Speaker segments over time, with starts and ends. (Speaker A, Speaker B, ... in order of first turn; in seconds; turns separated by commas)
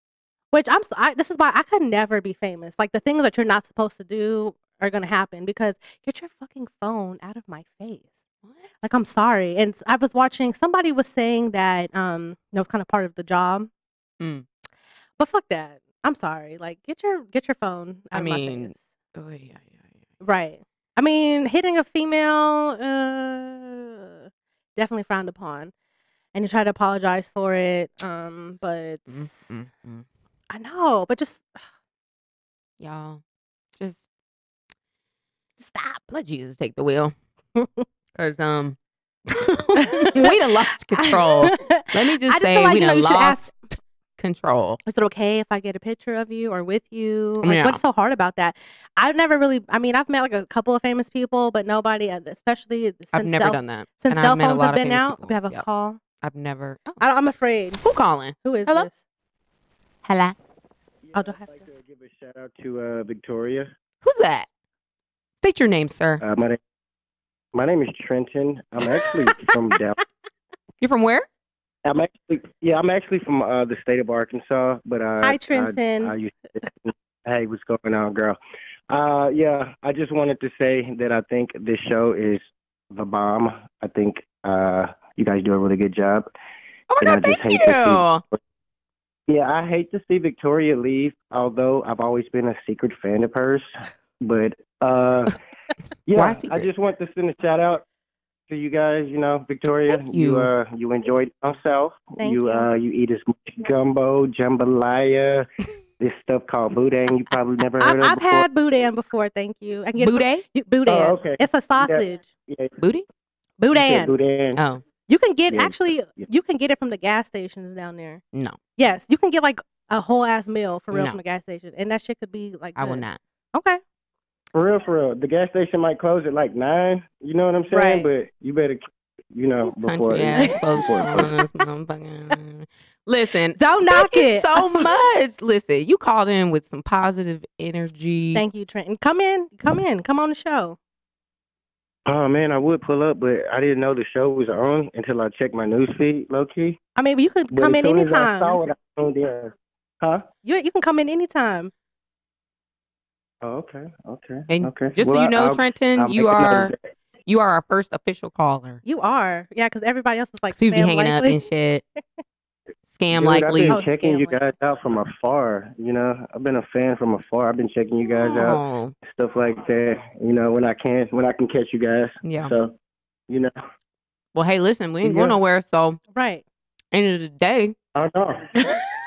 Speaker A: 0.5-8.2, Speaker B: 8.4-8.7, Speaker A: 8.8-13.7, Speaker B: 14.2-14.4, Speaker A: 15.2-18.8, Speaker B: 18.1-19.8, Speaker A: 20.2-25.7, Speaker A: 26.3-29.5, Speaker B: 29.1-30.1, Speaker A: 30.5-31.6, Speaker B: 32.8-33.2, Speaker B: 33.8-34.0, Speaker A: 35.6-36.0, Speaker B: 36.1-37.1, Speaker A: 37.5-37.8, Speaker B: 38.1-38.8, Speaker B: 39.3-43.6, Speaker A: 39.7-43.5, Speaker B: 44.2-44.8, Speaker A: 44.9-56.0, Speaker B: 47.4-47.8, Speaker B: 53.1-55.6, Speaker B: 56.2-57.0, Speaker A: 57.0-57.8, Speaker B: 57.8-58.9, Speaker A: 58.4-59.0, Speaker B: 60.0-60.4, Speaker C: 61.0-63.7, Speaker A: 61.1-61.6, Speaker B: 64.0-64.5, Speaker B: 65.4-66.2, Speaker C: 66.2-66.6, Speaker C: 67.5-70.0, Speaker A: 68.9-69.5, Speaker B: 70.8-71.3, Speaker C: 71.8-78.4, Speaker A: 75.2-76.1, Speaker C: 78.9-86.3, Speaker B: 86.9-88.2, Speaker C: 87.0-88.3, Speaker C: 89.3-93.7, Speaker C: 94.2-95.4, Speaker C: 96.1-97.8, Speaker B: 96.2-96.7, Speaker C: 98.5-105.5, Speaker B: 99.9-100.5, Speaker A: 102.2-102.7, Speaker C: 106.0-108.5, Speaker A: 107.8-112.2, Speaker B: 110.0-110.4, Speaker C: 110.8-112.7, Speaker B: 112.8-113.0, Speaker A: 113.6-114.1, Speaker C: 113.7-114.6, Speaker B: 114.5-114.8, Speaker A: 115.1-118.2, Speaker C: 115.5-115.8, Speaker B: 118.3-118.6, Speaker A: 118.8-123.8, Speaker B: 120.9-121.2, Speaker B: 122.8-123.2, Speaker C: 124.5-128.8, Speaker A: 127.7-128.1, Speaker C: 129.3-131.3, Speaker B: 129.7-138.4, Speaker A: 130.3-130.7, Speaker A: 133.5-134.9, Speaker A: 138.3-140.8, Speaker C: 142.1-146.8, Speaker A: 146.9-148.6, Speaker C: 147.5-150.2, Speaker A: 150.4-151.7, Speaker C: 153.4-156.8, Speaker B: 154.5-156.7, Speaker B: 157.2-158.8, Speaker A: 158.8-161.4, Speaker B: 160.5-161.8, Speaker B: 162.8-163.8, Speaker C: 163.1-172.7, Speaker A: 163.7-164.4, Speaker B: 168.1-168.9, Speaker B: 172.2-172.5, Speaker B: 174.3-176.0, Speaker C: 175.0-175.4, Speaker A: 176.1-176.4, Speaker B: 176.9-177.8, Speaker C: 177.9-178.6, Speaker A: 178.6-178.9